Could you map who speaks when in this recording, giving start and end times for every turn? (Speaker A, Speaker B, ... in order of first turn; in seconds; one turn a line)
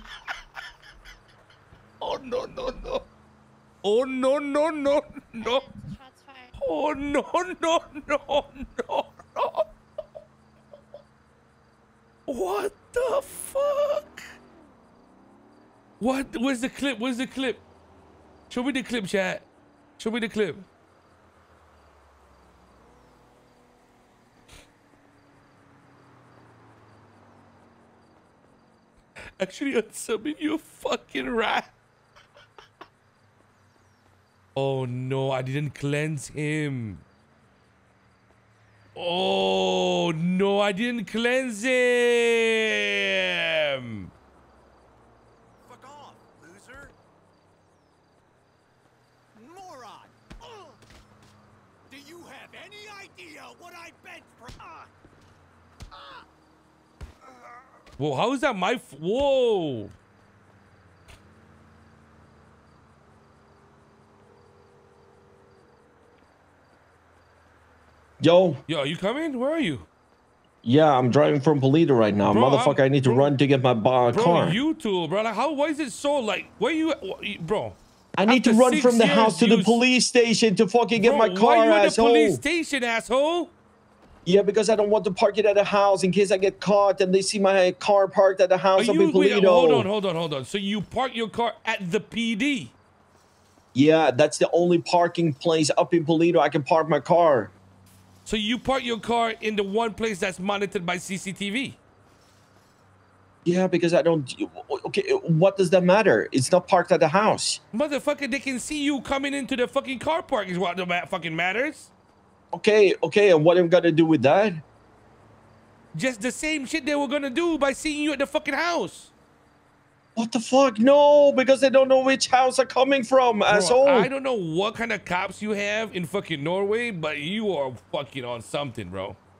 Speaker A: 2.0-3.0
Speaker A: 3.8-5.7
Speaker A: 6.6-9.7
Speaker A: 12.3-14.2
Speaker A: 16.0-17.6
Speaker A: 18.5-19.5
Speaker A: 20.0-20.6
Speaker A: 29.4-31.7
Speaker A: 34.5-37.0
Speaker A: 38.9-44.1
Speaker B: 45.7-46.9
Speaker B: 49.4-50.8
Speaker B: 51.9-54.9
Speaker A: 58.0-59.9
Speaker C: 68.2-68.6
Speaker A: 68.7-69.9
Speaker C: 70.6-74.6
Speaker A: 72.3-73.3
Speaker A: 74.1-79.8
Speaker C: 78.2-82.4
Speaker A: 81.0-83.5
Speaker C: 84.2-89.9
Speaker A: 88.8-92.7
Speaker C: 93.7-97.5
Speaker A: 98.2-101.8
Speaker C: 103.4-107.6
Speaker A: 107.7-111.9
Speaker C: 112.5-114.6
Speaker A: 115.9-119.1
Speaker C: 120.2-124.1
Speaker A: 123.5-129.2